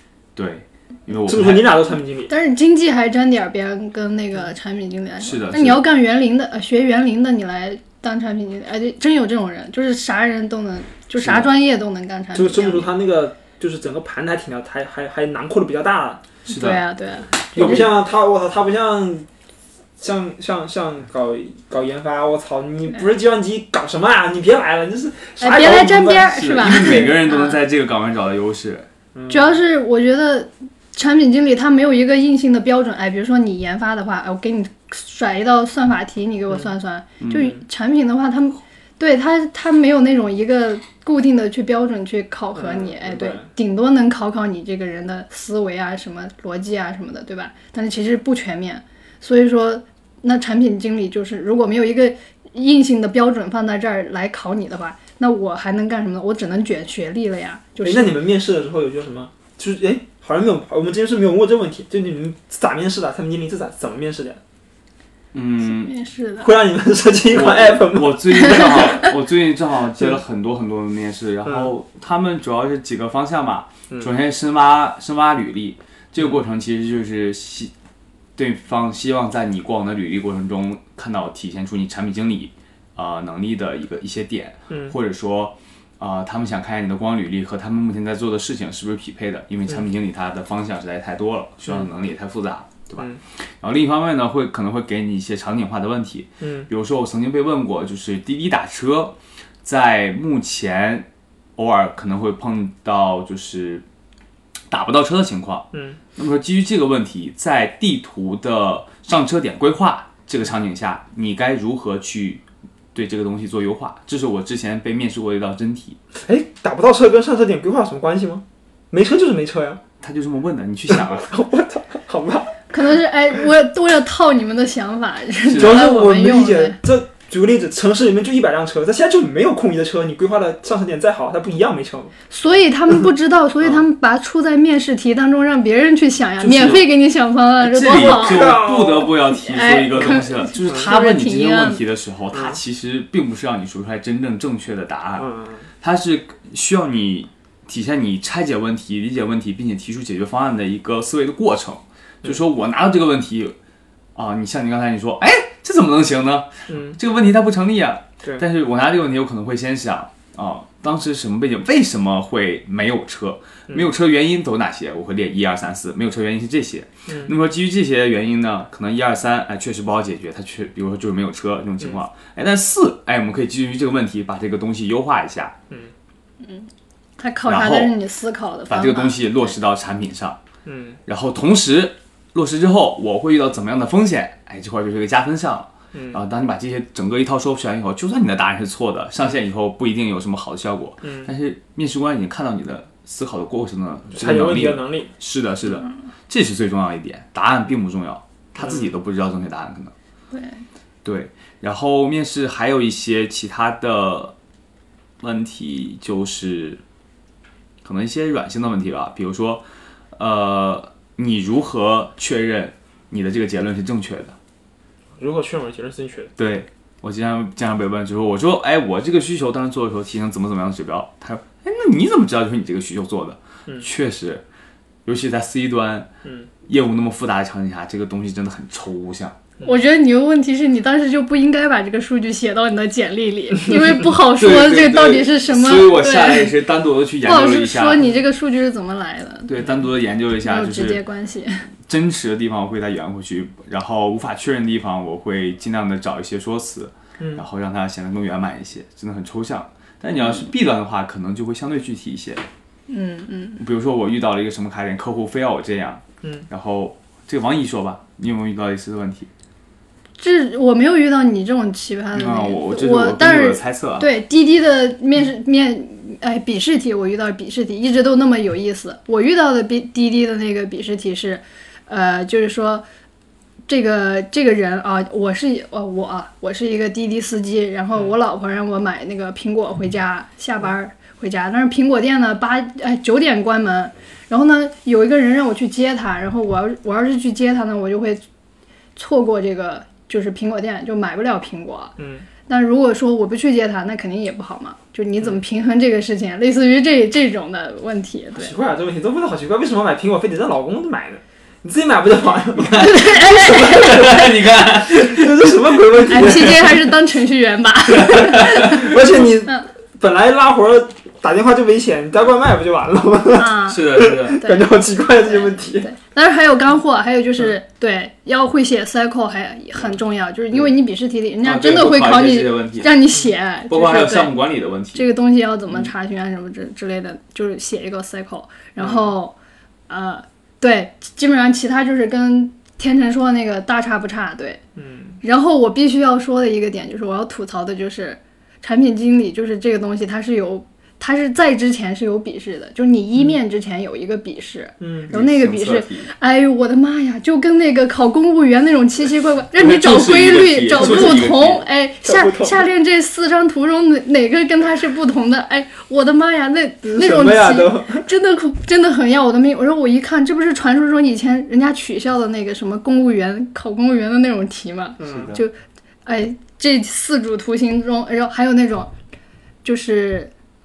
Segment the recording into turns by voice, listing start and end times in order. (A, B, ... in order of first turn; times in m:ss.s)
0:00.4-0:01.8 A
0:01.2-0:02.3 B
0:02.3-0:12.9 C
0:05.2-0:05.8 A
0:11.2-0:11.5 A
0:12.3-0:16.2 B
0:16.5-0:16.8 A
0:16.5-0:17.9 C
0:17.5-0:19.3 B
0:17.6-0:17.9 A
0:20.0-0:27.1 B
0:25.4-0:27.6 C
0:26.2-0:28.9 A
0:29.1-0:29.6 B
0:29.3-0:58.1 C
0:37.2-0:37.5 A
0:42.5-0:43.5 B
0:57.8-1:04.4 B
1:05.3-1:05.9 A
1:05.6-1:06.5 C
1:06.4-1:08.8 B
1:07.3-1:17.7 A
1:08.3-1:09.1 C
1:11.4-1:11.7 B
1:18.4-1:43.8 A
1:24.7-1:25.0 B
1:36.4-1:36.7 B
1:44.7-1:56.0 A
1:45.7-1:46.0 B
1:56.2-1:59.8 B
2:00.0-2:01.3 A
2:00.9-2:02.6 B
2:02.7-2:06.8 C
2:05.4-2:05.9 A
2:05.6-2:12.1 B
2:12.3-2:18.7 C
2:16.4-2:16.9 A
2:17.6-2:25.3 A
2:17.9-2:19.2 B
2:19.3-2:21.8 C
2:22.3-2:22.6 B
2:25.2-2:25.6 B
2:25.8-2:33.6 A
2:34.1-2:55.5 A
2:36.7-2:37.0 B
2:47.1-2:47.3 B
2:56.4-2:59.5 C
2:57.4-2:57.9 A
2:58.7-3:00.4 A
3:00.6-3:01.0 B
3:01.0-3:19.9 A
3:05.9-3:06.2 B
3:11.0-3:11.3 B
3:14.1-3:15.1 B
3:18.6-3:18.9 B
3:20.3-3:20.6 C
3:21.0-3:24.3 A
3:25.2-3:26.8 A
3:27.8-3:34.4 A
3:35.2-3:36.3 B
3:36.4-3:44.4 A
3:45.0-3:46.1 A
3:46.2-3:46.5 B
3:46.6-3:49.4 A
3:49.6-3:56.5 C
3:54.4-3:58.0 A
3:57.2-3:59.5 C
3:59.5-4:01.0 A
4:00.4-4:01.7 C
4:01.8-4:12.4 A
4:07.2-4:07.4 B
4:12.9-4:13.6 C
4:13.6-4:19.3 A
4:16.2-4:16.5 B
4:20.2-4:32.8 C
4:22.1-4:24.1 A
4:33.7-4:48.2 C
4:49.0-4:51.9 C
4:52.0-4:52.3 B
4:52.5-4:58.5 C
4:58.4-5:06.8 B
5:02.6-5:06.6 A
5:02.7-5:04.1 C
5:06.1-5:09.7 C
5:08.0-5:08.8 A
5:08.2-5:15.9 B
5:13.3-5:29.4 C
5:13.6-5:14.4 A
5:21.4-5:23.0 A
5:23.7-5:25.0 A
5:28.8-5:29.1 B
5:29.9-5:34.6 C
5:34.8-5:35.2 B
5:35.2-6:05.5 C
5:44.8-5:45.1 B
5:45.1-5:46.1 A
5:49.5-5:51.6 A
5:50.7-5:51.2 B
5:52.0-5:52.7 B
5:56.8-5:58.0 B
6:05.0-6:05.4 B
6:05.0-6:05.4 A
6:06.0-6:08.9 C
6:09.6-6:10.3 C